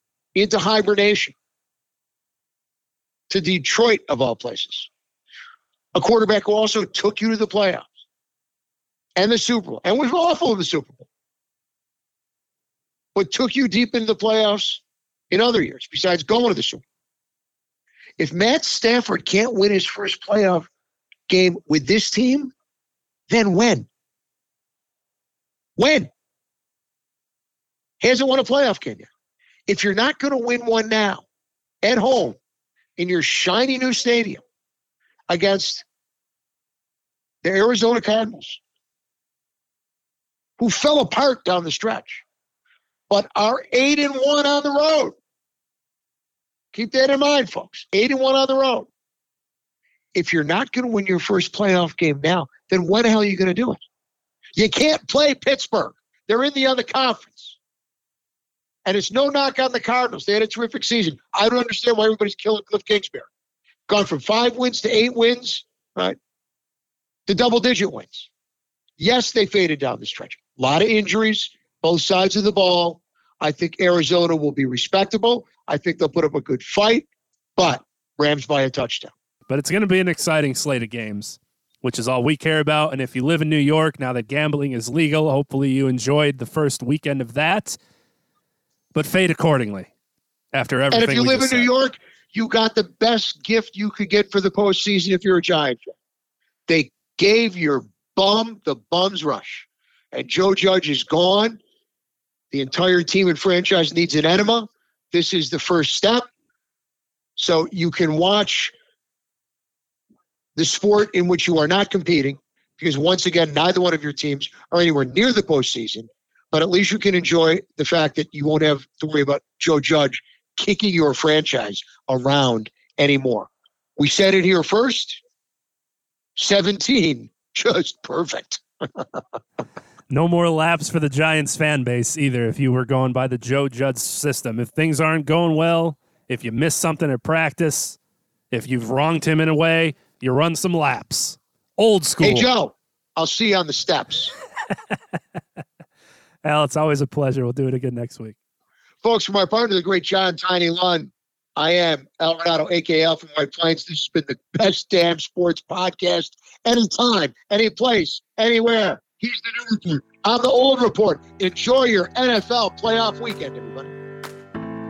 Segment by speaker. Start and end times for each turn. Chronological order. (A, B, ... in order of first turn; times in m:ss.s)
0:00.3-0:01.3 A
0:03.3-0:04.9 A
0:05.9-0:07.9 A
0:09.2-0:11.1 A
0:13.1-0:16.8 A
0:18.2-0:20.7 A
0:21.3-0:22.5 A
0:23.3-0:23.9 A
0:25.8-0:26.1 A
0:28.0-0:29.1 A
0:29.7-0:31.2 A
0:31.8-0:32.4 A
0:33.0-0:34.4 A
0:35.3-0:35.8 A
0:37.4-0:38.6 A
0:40.6-0:42.2 A
0:43.1-0:45.2 A
0:46.7-0:48.9 A
0:50.1-0:53.8 A
0:54.6-0:57.6 A
0:58.8-1:03.3 A
1:03.9-1:06.2 A
1:07.3-1:08.3 A
1:09.0-1:19.1 A
1:19.5-1:27.8 B
1:28.9-1:29.9 B
1:30.5-1:31.7 B
1:30.9-1:35.9 A
1:36.7-1:41.6 A
1:42.5-1:46.3 A
1:47.4-1:48.7 A
1:50.6-2:05.2 A
2:06.4-2:09.2 A
2:10.1-2:18.0 B
2:18.5-2:22.5 B
2:22.2-2:24.3 A
2:26.4-2:28.4 B
2:29.0-2:43.9 A